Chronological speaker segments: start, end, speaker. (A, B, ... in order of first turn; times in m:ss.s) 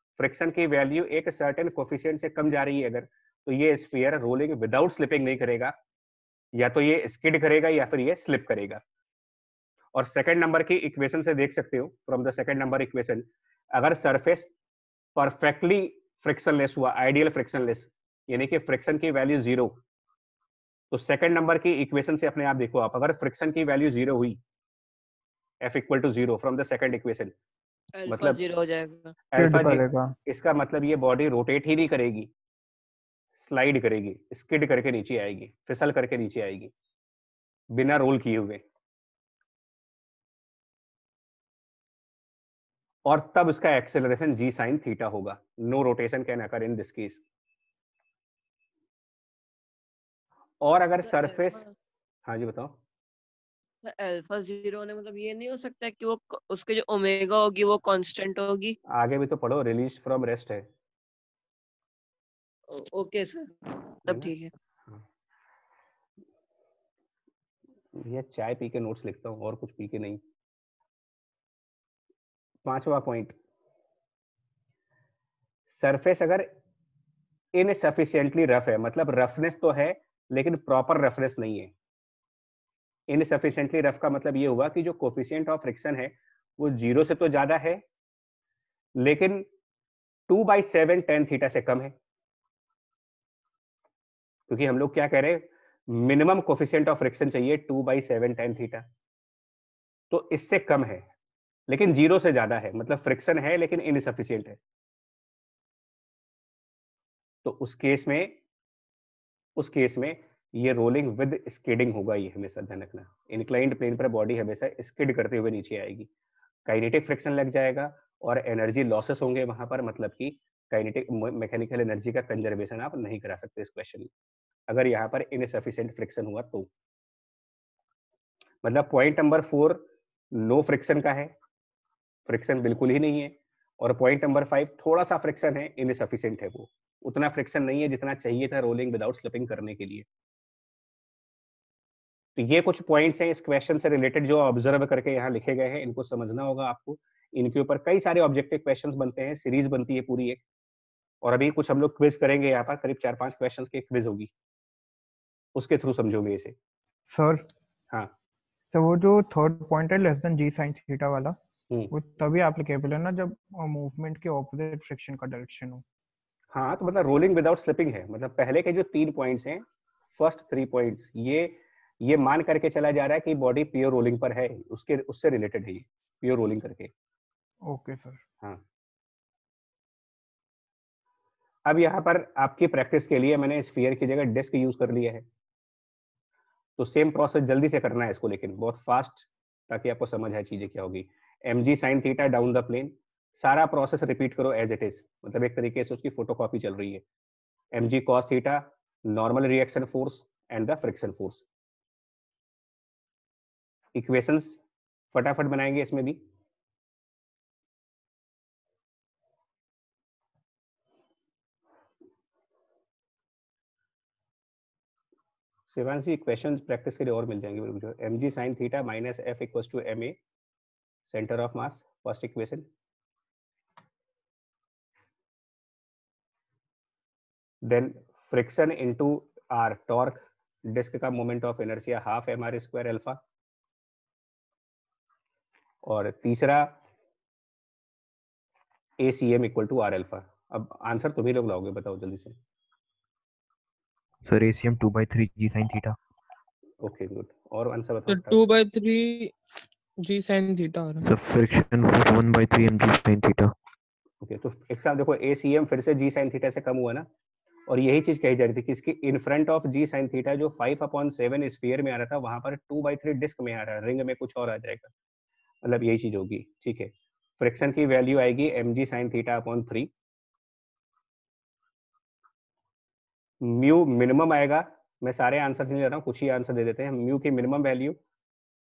0:00.2-0:05.8 A
0:06.6-0:08.8 A
0:10.0-0:14.5 A
0:15.2-0:19.8 A
0:20.9-0:24.4 A
0:25.6-0:27.3 A
0:28.0-0:29.2 B
0:28.1-0:28.4 A
0:29.3-0:32.3 A
0:29.4-0:30.2 C
0:33.4-0:36.7 A
0:37.7-0:38.6 A
0:43.0-0:47.2 A
0:50.6-0:51.6 A
0:51.0-0:51.7 B
0:52.3-0:52.8 A
0:53.8-0:58.8 B
0:58.9-1:00.6 A
1:02.7-1:04.5 B
1:04.1-1:04.3 A
1:08.0-1:10.2 A
1:12.7-1:13.4 A
1:15.7-1:16.5 A
1:17.6-1:21.7 A
1:23.1-1:27.8 A
1:29.0-1:29.5 A
1:30.3-1:31.9 A
1:34.5-1:38.8 A
1:40.1-1:41.1 A
1:41.7-1:44.6 A
1:47.4-1:48.4 A
1:49.6-1:56.1 A
1:56.7-2:04.1 A
2:04.7-2:06.7 A
2:08.6-2:11.3 A
2:12.3-2:20.1 A
2:22.4-2:30.4 A
2:31.2-2:34.3 A
2:35.6-2:36.6 A
2:37.1-2:37.5 C
2:38.7-2:41.4 C
2:41.9-2:45.8 C
2:46.5-2:49.6 A
2:50.2-2:56.9 A
2:57.7-2:58.2 C
3:01.7-3:05.3 A
3:06.8-3:17.0 A
3:17.7-3:21.5 A
3:24.0-3:24.6 A
3:25.1-3:26.2 A
3:35.7-3:40.2 A
3:41.1-3:42.7 A
3:47.6-3:53.2 A
3:55.8-3:56.8 A
3:59.0-4:02.4 A
4:04.2-4:06.0 D
4:06.8-4:08.4 A
4:08.1-4:09.3 E
4:10.0-4:11.1 E
4:11.0-4:13.5 D
4:14.2-4:17.1 A
4:17.7-4:24.9 A
4:25.6-4:29.9 A
4:33.4-4:38.0 A